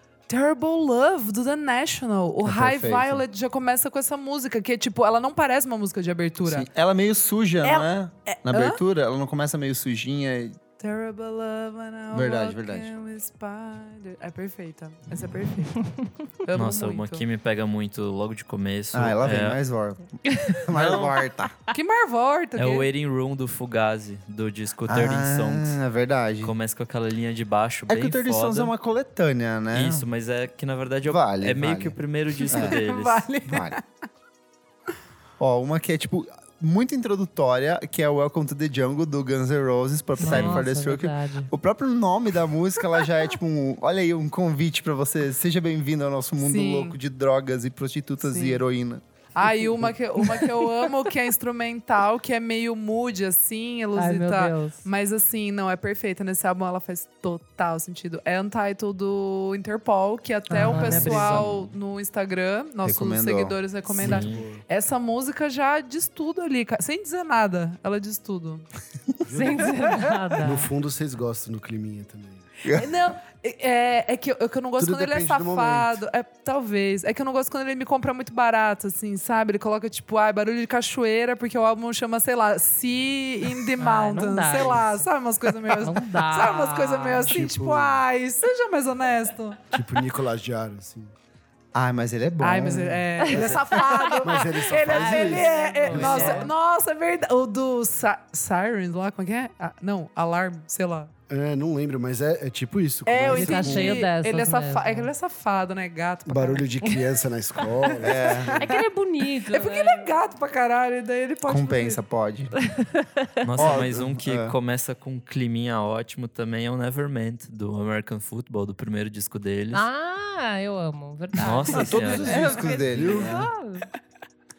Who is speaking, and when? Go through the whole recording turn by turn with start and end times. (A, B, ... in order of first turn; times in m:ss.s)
0:00.3-0:06.7 A
0:02.4-0:03.2 B
0:06.4-0:10.6 B
0:07.6-0:08.8 A
0:10.8-0:17.2 A
0:12.1-0:12.9 B
0:16.5-0:19.6 C
0:18.9-0:21.6 B
0:20.7-0:21.2 C
0:21.7-0:22.9 A
0:22.6-0:25.8 C
0:24.9-0:26.5 B
0:26.4-0:28.7 C
0:27.9-0:30.1 B
0:29.7-0:33.2 C
0:31.0-0:32.0 B
0:32.4-0:33.8 A
0:32.5-0:32.8 B
0:33.5-0:33.8 B
0:35.4-0:49.0 B
0:40.2-0:41.5 D
0:40.2-0:40.6 C
0:46.4-0:47.0 A
0:48.2-0:48.6 A
0:49.4-1:08.7 A
0:54.0-0:54.8 D
1:00.5-1:01.5 D
1:00.7-1:01.7 C
1:02.8-1:03.6 B
1:04.0-1:04.6 E
1:04.0-1:04.4 C
1:09.3-1:09.8 E
1:09.3-1:10.7 D
1:10.4-1:12.5 E
1:12.6-1:12.9 B
1:12.7-1:29.6 A
1:14.8-1:16.0 E
1:23.8-1:25.0 D
1:25.8-1:27.3 D
1:27.2-1:28.0 E
1:29.7-1:31.1 E
1:31.7-1:33.0 B
1:32.4-1:41.1 A
1:32.6-1:36.5 E
1:33.2-1:36.5 D
1:35.9-1:36.4 B
1:41.3-1:44.0 E
1:43.1-1:47.0 A
1:43.3-1:45.1 D
1:46.3-1:48.7 E
1:47.8-1:48.1 A
1:48.0-1:48.6 B
1:48.6-1:50.1 D
1:49.5-1:52.0 A
1:51.5-1:52.5 B
1:52.6-1:53.3 D
1:53.4-1:59.9 C
1:53.6-1:54.5 B
1:59.7-2:03.9 D
2:01.4-2:03.3 C
2:01.7-2:03.4 B
2:02.2-2:03.4 E